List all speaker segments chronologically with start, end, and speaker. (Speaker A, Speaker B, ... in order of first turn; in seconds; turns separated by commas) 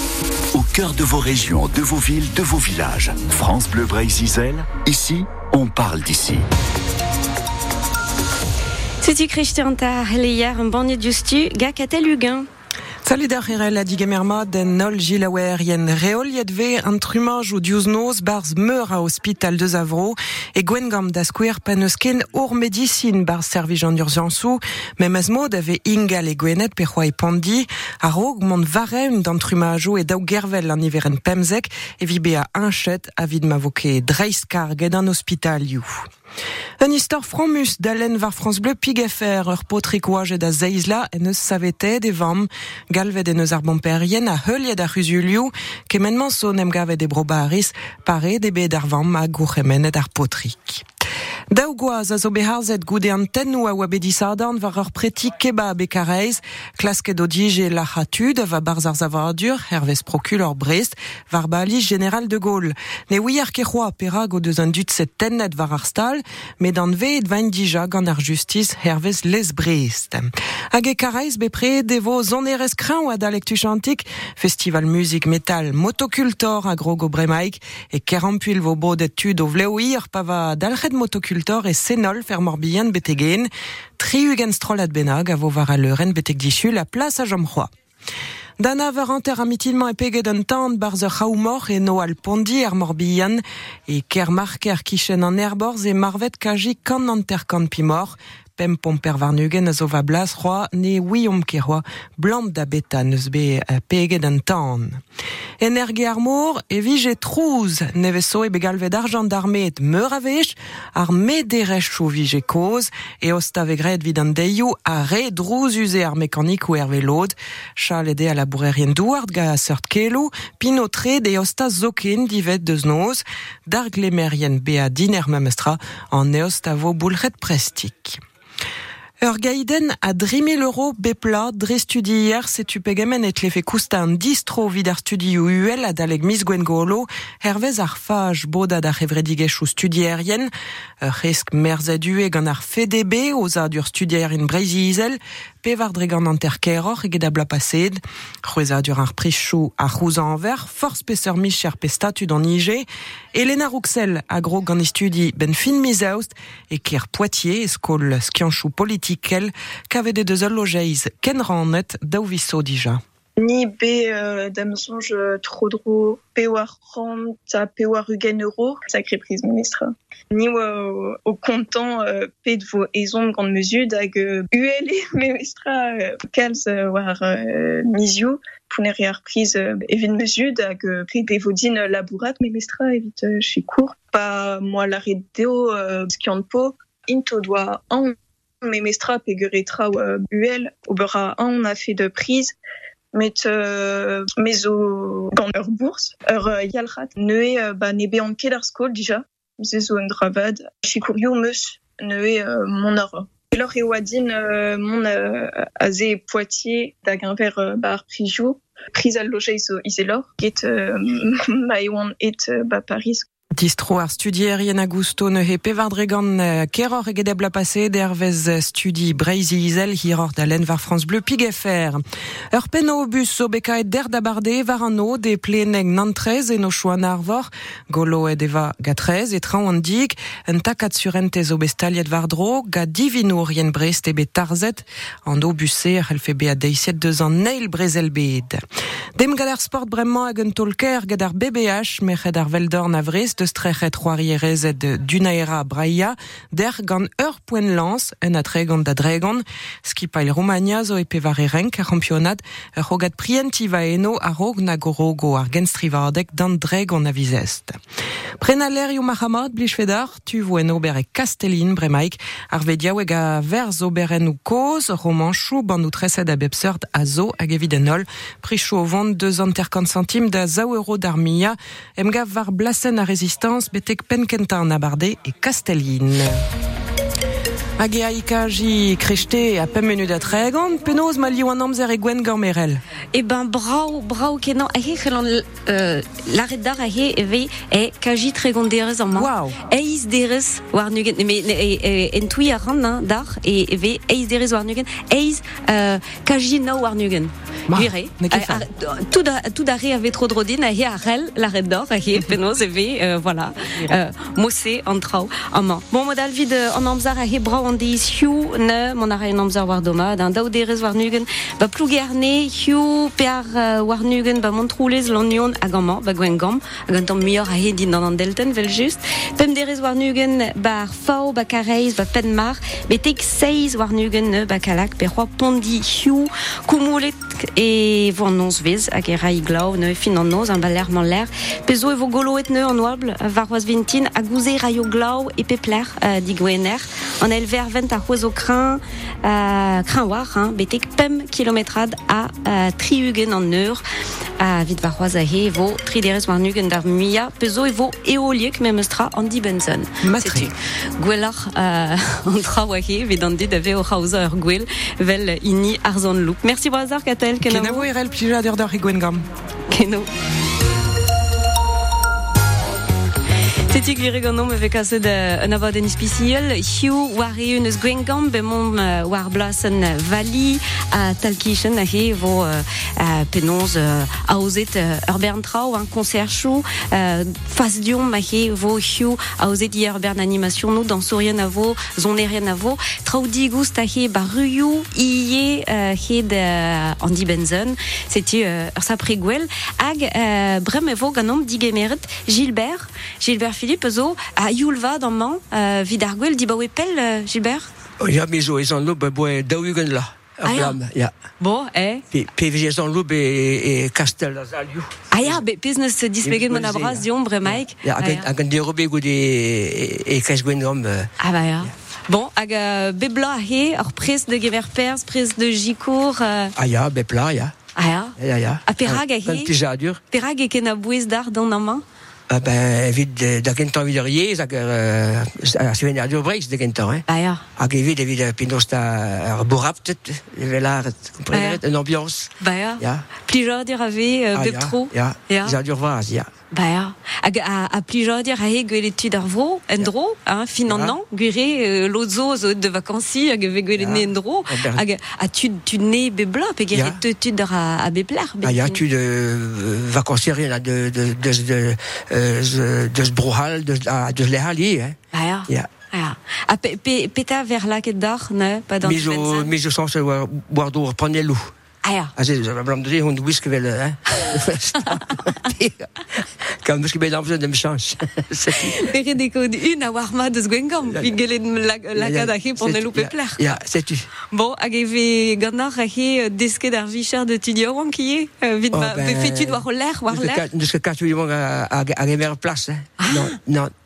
Speaker A: 0.5-6.4, Speaker B: 9.0-12.5, Speaker C: 13.0-36.1, Speaker C: 36.8-50.8, Speaker C: 51.5-87.7, Speaker C: 88.6-105.0, Speaker C: 105.6-128.2, Speaker C: 129.2-140.5, Speaker C: 141.0-163.0, Speaker D: 163.4-192.6, Speaker D: 193.1-213.3, Speaker C: 213.6-222.0, Speaker C: 222.5-238.6, Speaker C: 239.2-257.8, Speaker C: 258.4-276.4, Speaker C: 277.8-282.8, Speaker B: 283.1-343.8, Speaker C: 289.1-289.6, Speaker C: 297.7-298.6, Speaker B: 344.4-357.9, Speaker C: 350.0-350.5, Speaker C: 357.5-359.2, Speaker B: 359.7-360.1, Speaker B: 363.7-397.7, Speaker B: 400.4-400.8, Speaker B: 401.4-402.1, Speaker B: 405.1-408.3, Speaker B: 411.2-416.5, Speaker B: 417.8-419.5, Speaker B: 420.1-421.8, Speaker B: 427.1-427.4, Speaker B: 431.3-431.6, Speaker B: 432.4-435.6, Speaker E: 435.5-436.2, Speaker B: 436.5-448.8, Speaker E: 448.7-451.5, Speaker E: 452.2-454.9, Speaker B: 455.1-459.5, Speaker E: 458.9-461.4, Speaker B: 461.8-462.1, Speaker E: 462.2-465.8, Speaker E: 466.7-468.5, Speaker B: 468.5-473.6, Speaker E: 473.4-474.0, Speaker B: 474.3-480.5, Speaker E: 478.8-479.6, Speaker E: 480.1-483.7, Speaker B: 483.0-483.4